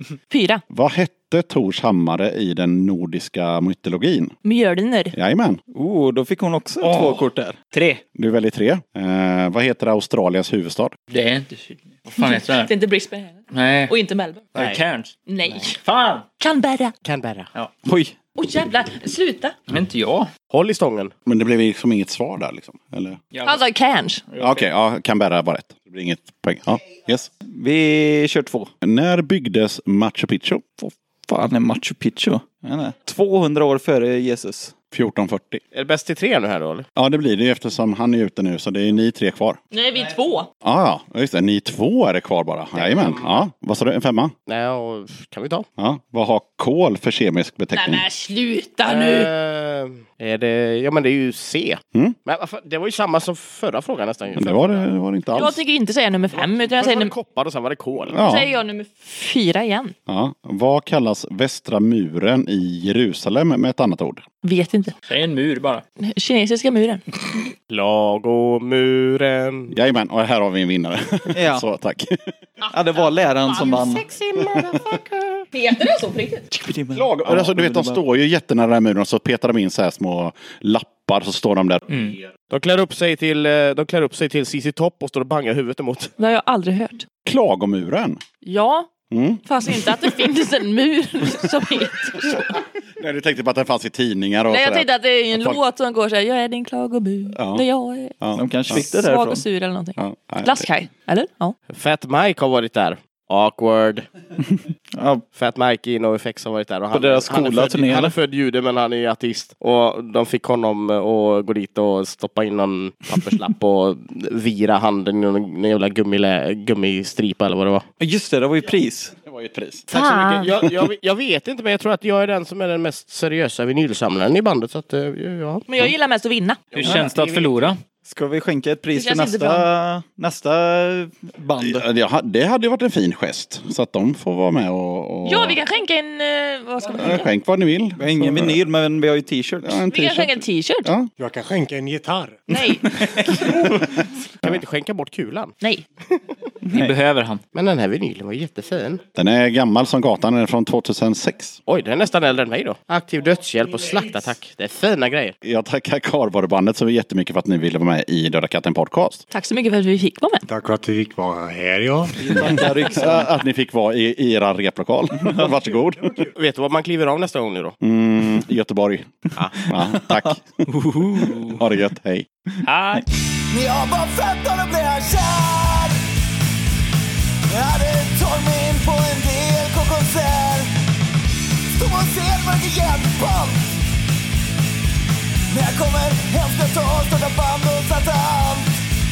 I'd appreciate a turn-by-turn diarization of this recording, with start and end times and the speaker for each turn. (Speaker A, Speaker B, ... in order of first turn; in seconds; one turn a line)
Speaker A: 0.3-0.6
Speaker B: 0.7-4.3
Speaker A: 4.4-5.1
Speaker B: 5.1-5.6
Speaker C: 5.7-7.6
Speaker D: 6.8-8.0
Speaker B: 8.2-10.9
Speaker D: 11.1-12.7
Speaker A: 12.2-14.6
Speaker D: 13.5-13.9
Speaker D: 14.6-15.1
Speaker A: 15.2-15.8
Speaker D: 15.8-16.2
Speaker A: 16.4-16.9
Speaker E: 17.0-17.5
Speaker C: 17.8-18.1
Speaker A: 18.4-19.5
Speaker D: 19.7-20.3
Speaker E: 20.5-21.1
Speaker B: 21.2-23.2
Speaker D: 23.3-23.6
Speaker A: 23.4-24.2
Speaker D: 24.3-24.6
Speaker B: 24.4-27.3
Speaker C: 27.4-28.7
Speaker B: 28.8-30.6
Speaker C: 30.8-34.8
Speaker B: 34.9-35.6
Speaker E: 35.7-36.9
Speaker B: 37.0-39.6
Speaker A: 39.7-40.5
Speaker B: 40.6-44.3
Speaker E: 42.7-43.5
Speaker E: 44.5-45.7
Speaker B: 45.8-48.0
Speaker A: 47.7-49.3
Speaker E: 48.9-55.0
Speaker B: 54.4-55.6
Speaker A: 55.3-57.1
Speaker E: 56.3-58.2
Speaker B: 58.1-58.5
Speaker A: 58.1-59.9
Speaker B: 60.1-64.2
Speaker A: 64.4-64.9
Speaker D: 65.1-65.8
Speaker A: 66.0-67.5
Speaker E: 67.7-69.7
Speaker B: 69.7-72.3
Speaker C: 71.3-71.6
Speaker C: 72.7-74.0
Speaker A: 73.5-76.5
Speaker B: 74.4-74.7
Speaker C: 76.5-78.0
Speaker B: 76.9-81.9
Speaker D: 81.9-82.2
Speaker E: 82.5-86.1
Speaker A: 86.2-87.0
Speaker B: 87.2-88.2
Speaker A: 88.4-88.9
Speaker B: 89.1-89.4
Speaker A: 89.4-92.6
Speaker B: 93.0-95.6
Speaker A: 94.5-98.1
Speaker B: 97.3-97.6
Speaker B: 98.2-98.8
Speaker C: 98.3-99.4
Speaker A: 98.7-101.5
Speaker B: 100.0-100.7
Speaker E: 101.7-104.0
Speaker C: 104.9-105.2
Speaker E: 105.3-117.8
Speaker C: 106.9-108.1
Speaker C: 118.0-119.1
Speaker B: 119.2-119.9
Speaker A: 119.9-120.5
Speaker E: 119.9-125.9
Speaker A: 125.7-126.7
Speaker E: 126.7-127.7
Speaker D: 126.8-127.8
Speaker C: 128.0-131.8
Speaker A: 128.9-129.7
Speaker B: 131.6-135.6
Speaker A: 135.2-137.3
Speaker B: 137.0-138.6
Speaker C: 138.0-139.8
Speaker B: 139.6-141.1
Speaker A: 139.9-140.9
Speaker F: 141.2-142.5
Speaker A: 142.5-142.9
Speaker C: 142.9-143.9
Speaker E: 144.4-145.5
Speaker D: 146.7-147.4
Speaker E: 147.5-149.0
Speaker B: 149.2-151.6
Speaker E: 151.7-155.3
Speaker B: 155.4-159.2
Speaker A: 159.3-160.4
Speaker F: 160.5-162.1
Speaker C: 162.2-163.3
Speaker B: 162.4-166.1
Speaker D: 162.5-163.2
Speaker F: 165.7-166.3
Speaker E: 166.3-167.8
Speaker B: 167.8-169.1
Speaker B: 169.7-170.4
Speaker C: 170.0-170.3
Speaker D: 170.7-171.6
Speaker B: 171.6-172.3
Speaker D: 172.6-173.0
Speaker G: 173.5-176.0
Speaker G: 177.5-180.7
Speaker G: 181.8-183.8
Speaker G: 185.5-188.7